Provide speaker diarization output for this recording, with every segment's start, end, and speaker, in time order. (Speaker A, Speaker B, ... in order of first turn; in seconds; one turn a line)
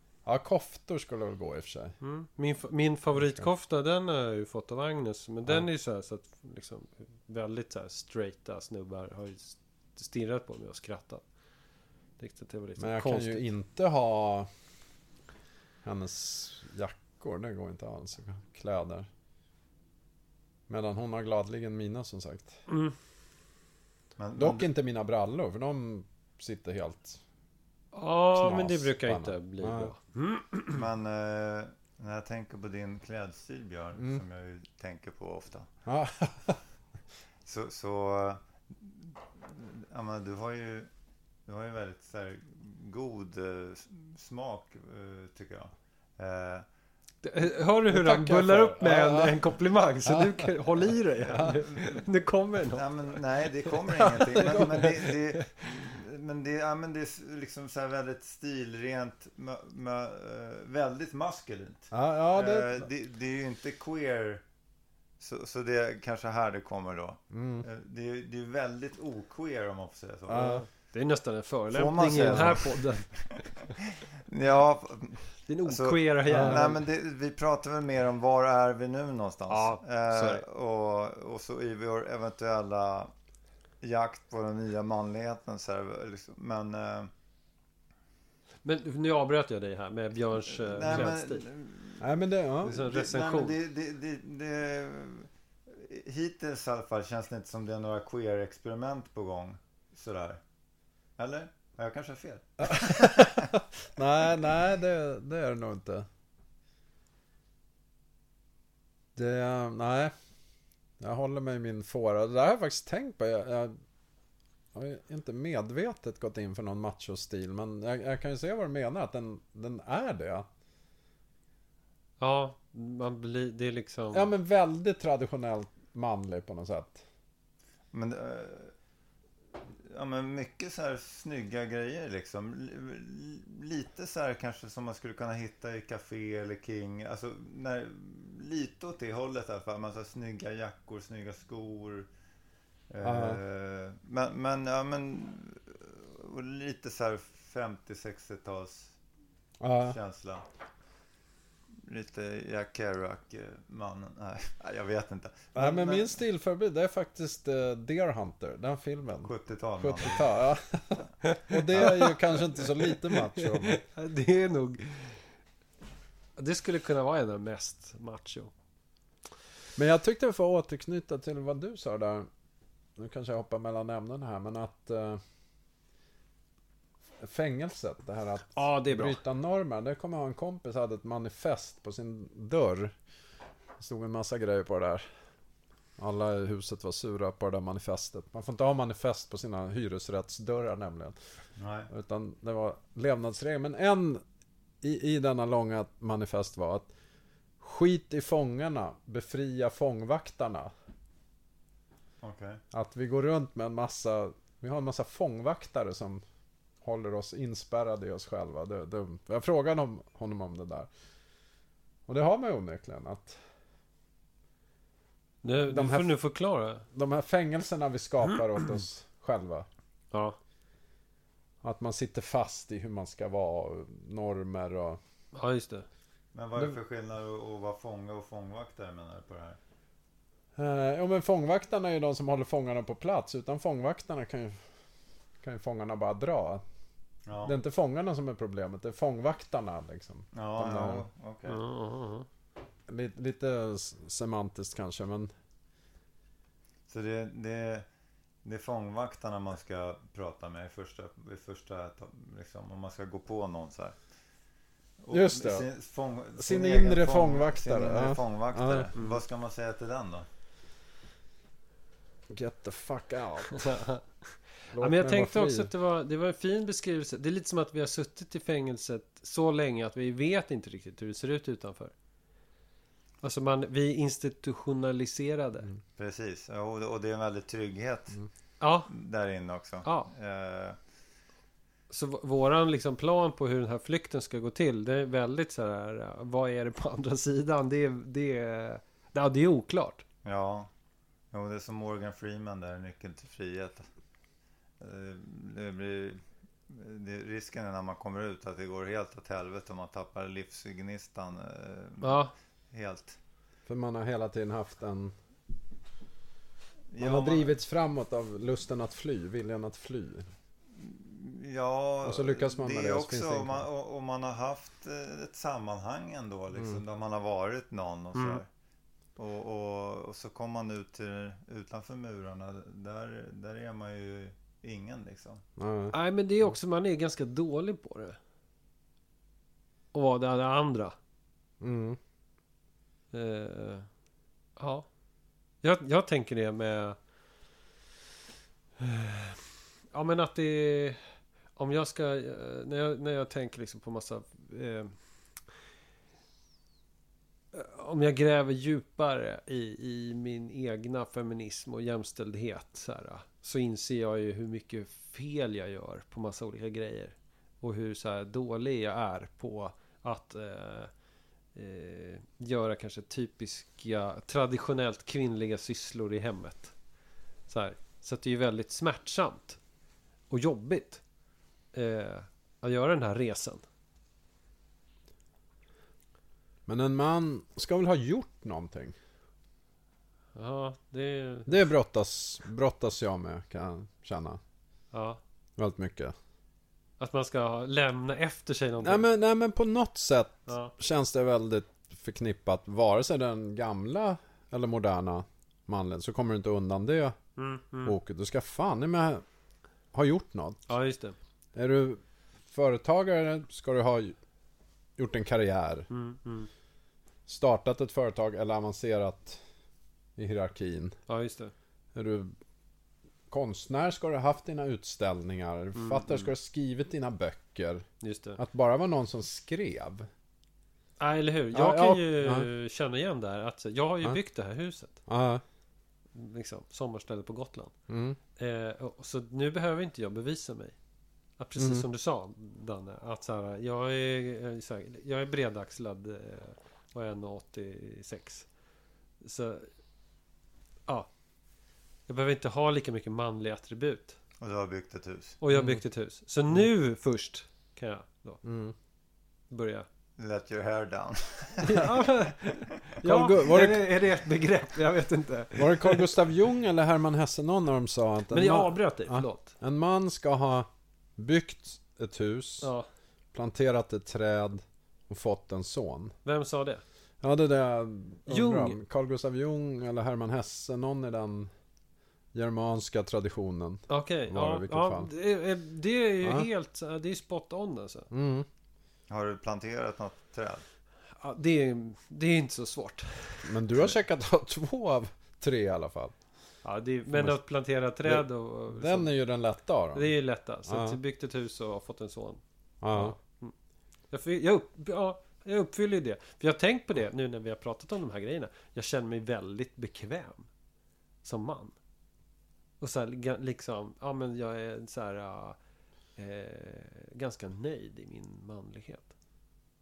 Speaker A: 0.2-1.9
Speaker B: 2.0-11.2
Speaker A: 3.1-3.5
Speaker B: 12.2-13.5
Speaker A: 12.8-14.5
Speaker A: 15.8-19.1
Speaker A: 20.7-22.6
Speaker B: 22.7-22.9
Speaker C: 24.2-24.6
Speaker A: 24.4-27.2
Speaker B: 27.9-30.8
Speaker A: 28.3-29.9
Speaker C: 30.7-35.7
Speaker A: 34.0-34.2
Speaker A: 35.9-36.6
Speaker C: 37.4-40.9
Speaker C: 41.5-46.6
Speaker B: 47.2-52.9
Speaker A: 47.9-49.4
Speaker A: 50.0-50.5
Speaker A: 51.3-51.6
Speaker C: 52.7-64.4
Speaker A: 54.0-54.9
Speaker B: 54.3-55.5
Speaker A: 61.9-62.9
Speaker C: 65.2-70.6
Speaker A: 67.3-67.7
Speaker A: 70.3-70.6
Speaker B: 70.9-73.1
Speaker C: 71.7-83.1
Speaker B: 75.5-76.8
Speaker A: 76.3-76.7
Speaker B: 79.5-80.4
Speaker C: 83.8-87.1
Speaker B: 88.6-91.4
Speaker C: 90.5-92.1
Speaker A: 92.0-92.8
Speaker B: 92.6-93.5
Speaker C: 92.6-100.4
Speaker C: 101.2-103.5
Speaker A: 102.6-106.0
Speaker A: 109.1-110.1
Speaker A: 111.0-113.7
Speaker A: 114.7-120.5
Speaker B: 122.2-124.3
Speaker A: 124.1-127.0
Speaker C: 127.9-128.7
Speaker C: 129.8-142.1
Speaker C: 142.9-148.9
Speaker A: 143.0-143.4
Speaker A: 149.6-150.0
Speaker C: 149.8-150.4
Speaker C: 151.8-156.1
Speaker A: 155.5-163.8
Speaker C: 159.2-160.3
Speaker B: 161.2-165.2
Speaker B: 166.4-168.5
Speaker A: 169.8-172.3
Speaker A: 173.0-175.2
Speaker A: 177.2-182.9
Speaker B: 178.5-179.2
Speaker A: 183.8-185.1
Speaker A: 186.0-191.2
Speaker C: 191.6-191.9
Speaker A: 191.9-194.2
Speaker A: 194.8-196.9
Speaker A: 197.6-200.7
Speaker C: 202.2-202.6
Speaker A: 202.7-206.2
Speaker A: 206.8-210.9
Speaker A: 212.1-213.4
Speaker B: 215.4-216.8
Speaker A: 215.7-216.1
Speaker A: 216.9-219.7
Speaker B: 220.1-220.4
Speaker A: 221.6-225.0
Speaker B: 225.3-225.8
Speaker C: 226.3-229.6
Speaker A: 230.6-234.6
Speaker A: 235.4-236.6
Speaker C: 237.2-237.6
Speaker A: 237.4-241.1
Speaker C: 240.3-241.6
Speaker B: 241.5-242.3
Speaker A: 242.9-245.3
Speaker C: 246.9-247.8
Speaker C: 248.4-253.9
Speaker C: 255.0-260.3
Speaker A: 255.1-255.7
Speaker A: 256.4-258.9
Speaker B: 258.9-259.2
Speaker A: 262.3-263.8
Speaker B: 263.5-264.0
Speaker A: 264.7-265.7
Speaker B: 264.7-271.9
Speaker B: 273.2-275.7
Speaker C: 276.0-278.2
Speaker B: 278.6-278.9
Speaker C: 278.9-280.8
Speaker B: 279.8-280.1
Speaker B: 281.9-290.0
Speaker C: 290.2-290.7
Speaker C: 291.3-293.9
Speaker C: 294.8-303.2
Speaker B: 302.0-302.3
Speaker A: 303.6-305.1
Speaker C: 306.9-307.6
Speaker A: 307.0-310.3
Speaker C: 310.8-318.4
Speaker A: 312.0-313.6
Speaker A: 316.5-316.8
Speaker B: 318.1-318.4
Speaker C: 319.2-325.4
Speaker A: 325.6-325.9
Speaker B: 325.9-328.2
Speaker B: 329.9-330.9
Speaker A: 331.6-332.0
Speaker B: 333.1-333.9
Speaker B: 334.6-334.9
Speaker B: 335.6-337.0
Speaker B: 338.8-341.0
Speaker B: 341.6-344.9
Speaker B: 347.5-360.9
Speaker B: 361.5-366.7
Speaker B: 367.5-369.6
Speaker B: 370.3-371.0
Speaker B: 371.7-373.6
Speaker A: 376.7-378.9
Speaker B: 380.3-381.6
Speaker A: 381.4-384.4
Speaker B: 384.9-385.2
Speaker A: 385.6-386.1
Speaker B: 387.0-389.1
Speaker A: 388.8-397.1
Speaker B: 390.5-390.7
Speaker B: 397.4-397.9
Speaker A: 397.8-399.2
Speaker A: 399.9-400.7
Speaker B: 400.7-401.1
Speaker A: 401.5-404.1
Speaker A: 405.0-405.9
Speaker B: 405.9-406.5
Speaker A: 407.3-409.4
Speaker A: 410.2-410.9
Speaker B: 411.1-411.5
Speaker A: 411.9-412.3
Speaker A: 413.3-417.8
Speaker B: 415.7-416.3
Speaker B: 418.0-418.4
Speaker A: 418.4-420.1
Speaker B: 421.0-425.0
Speaker A: 421.5-422.5
Speaker A: 425.1-425.4
Speaker B: 426.1-427.7
Speaker A: 427.9-428.2
Speaker B: 428.4-430.8
Speaker B: 431.4-438.5
Speaker A: 431.6-431.9
Speaker B: 439.2-439.7
Speaker B: 442.1-444.2
Speaker C: 444.4-445.4
Speaker B: 445.4-448.4
Speaker A: 445.5-445.8
Speaker A: 448.4-448.7
Speaker B: 449.5-449.9
Speaker C: 450.2-451.9
Speaker B: 451.6-456.2
Speaker A: 453.0-453.9
Speaker A: 455.6-462.7
Speaker B: 458.3-459.5
Speaker A: 463.3-466.1
Speaker B: 466.2-466.8
Speaker A: 467.2-471.5
Speaker B: 468.3-468.8
Speaker A: 472.3-475.1
Speaker B: 473.9-478.1
Speaker A: 478.1-478.5
Speaker C: 479.1-480.6
Speaker B: 481.2-483.9
Speaker A: 483.4-486.1
Speaker B: 486.6-489.1
Speaker A: 487.1-487.4
Speaker A: 488.0-490.1
Speaker B: 489.9-493.5
Speaker A: 490.7-491.0
Speaker A: 492.8-493.1
Speaker B: 494.1-500.5
Speaker B: 501.2-501.7
Speaker B: 502.8-505.6
Speaker B: 506.1-509.1